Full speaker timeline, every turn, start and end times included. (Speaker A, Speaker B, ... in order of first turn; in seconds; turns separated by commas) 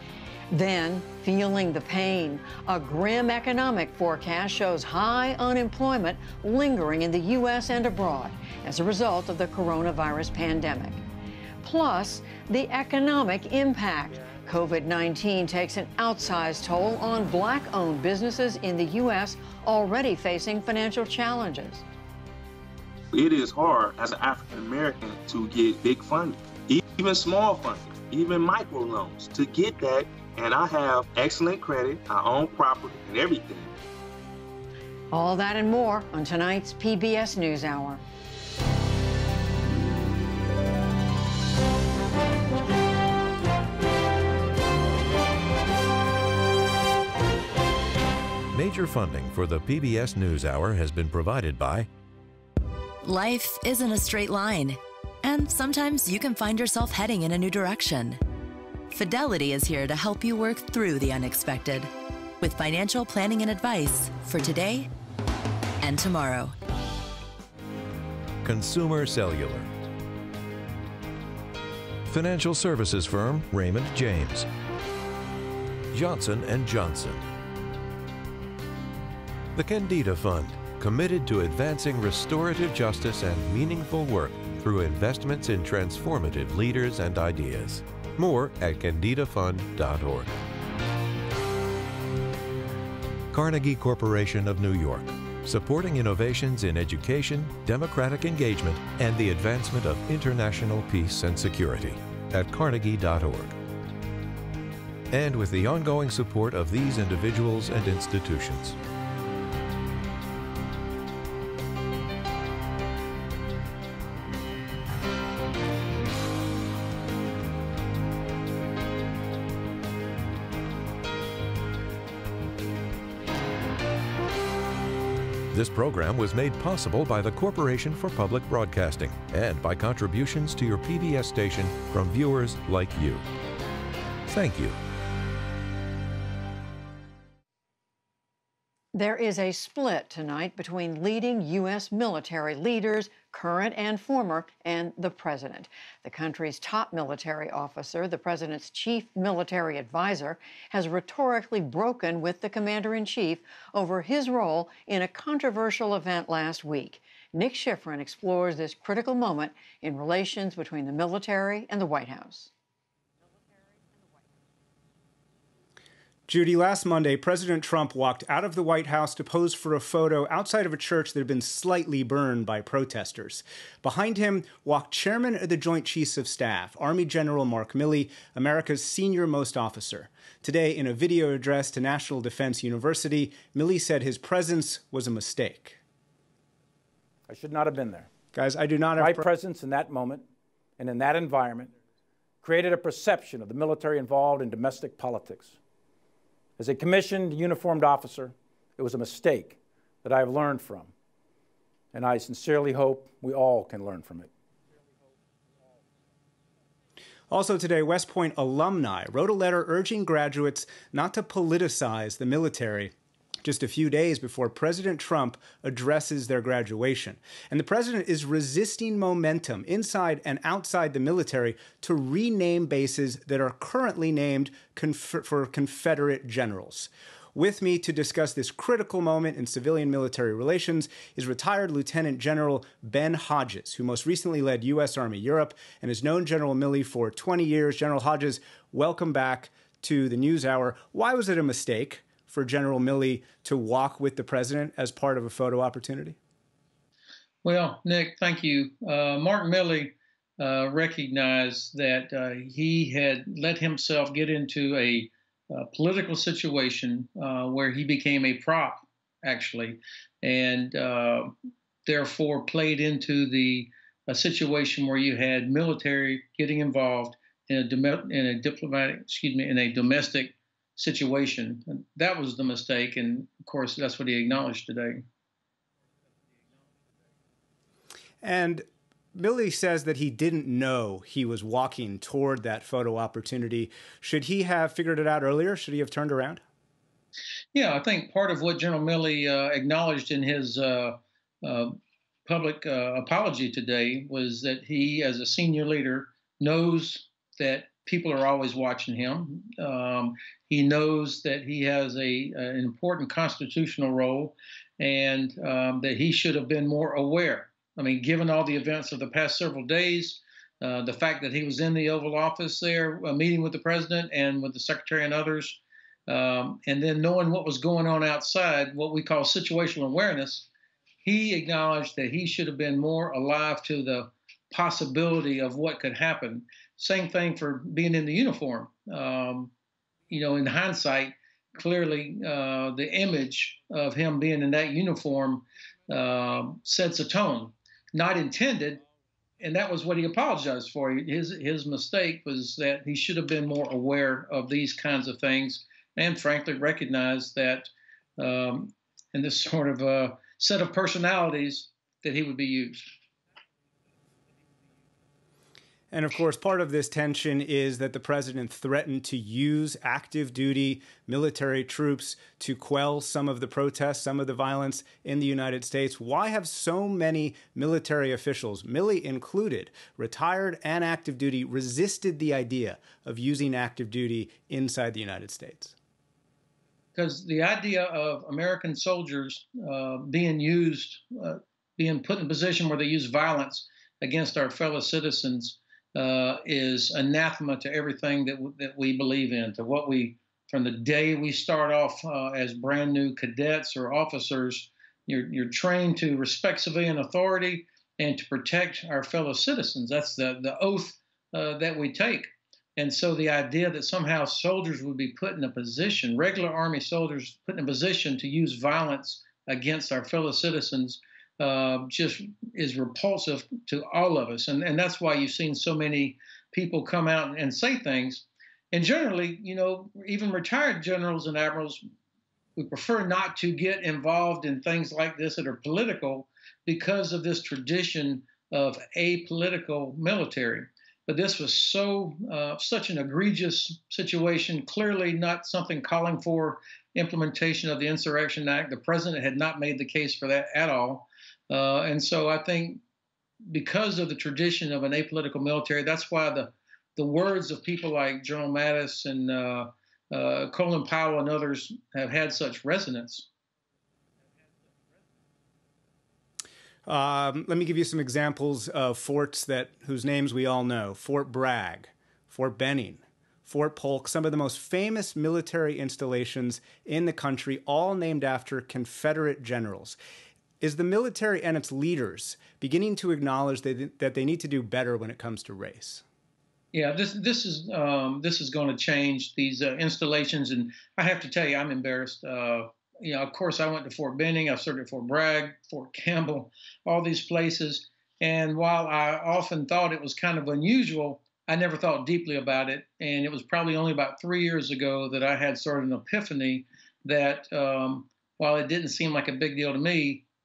Speaker A: 0.5-11.0, Speaker A: 11.6-21.9, Speaker B: 23.1-33.7, Speaker A: 35.1-38.0, Speaker C: 48.5-51.9, Speaker D: 53.0-58.2, Speaker D: 58.9-64.9, Speaker D: 65.8-66.5, Speaker C: 68.4-69.7, Speaker C: 72.1-74.5, Speaker C: 75.9-77.3, Speaker C: 79.5-90.3, Speaker C: 93.3-103.6, Speaker C: 105.1-108.8, Speaker C: 125.5-133.2, Speaker C: 134.3-134.8, Speaker A: 138.9-162.5, Speaker E: 166.3-185.8, Speaker F: 187.3-188.1, Speaker E: 188.3-189.3, Speaker F: 189.0-190.3, Speaker F: 190.8-191.7, Speaker F: 192.4-195.6, Speaker F: 196.6-200.9, Speaker F: 201.9-204.3, Speaker E: 207.3-246.2, Speaker G: 247.4-261.4, Speaker G: 261.9-275.1, Speaker E: 278.2-286.4, Speaker G: 287.5-320.5, Speaker G: 321.0-329.5, Speaker G: 330.1-338.8, Speaker G: 339.4-352.8, Speaker E: 355.9-375.8, Speaker G: 376.9-421.8, Speaker G: 422.6-442.8, Speaker G: 443.5-453.3, Speaker E: 456.9-470.0, Speaker E: 470.6-476.0, Speaker G: 476.7-500.2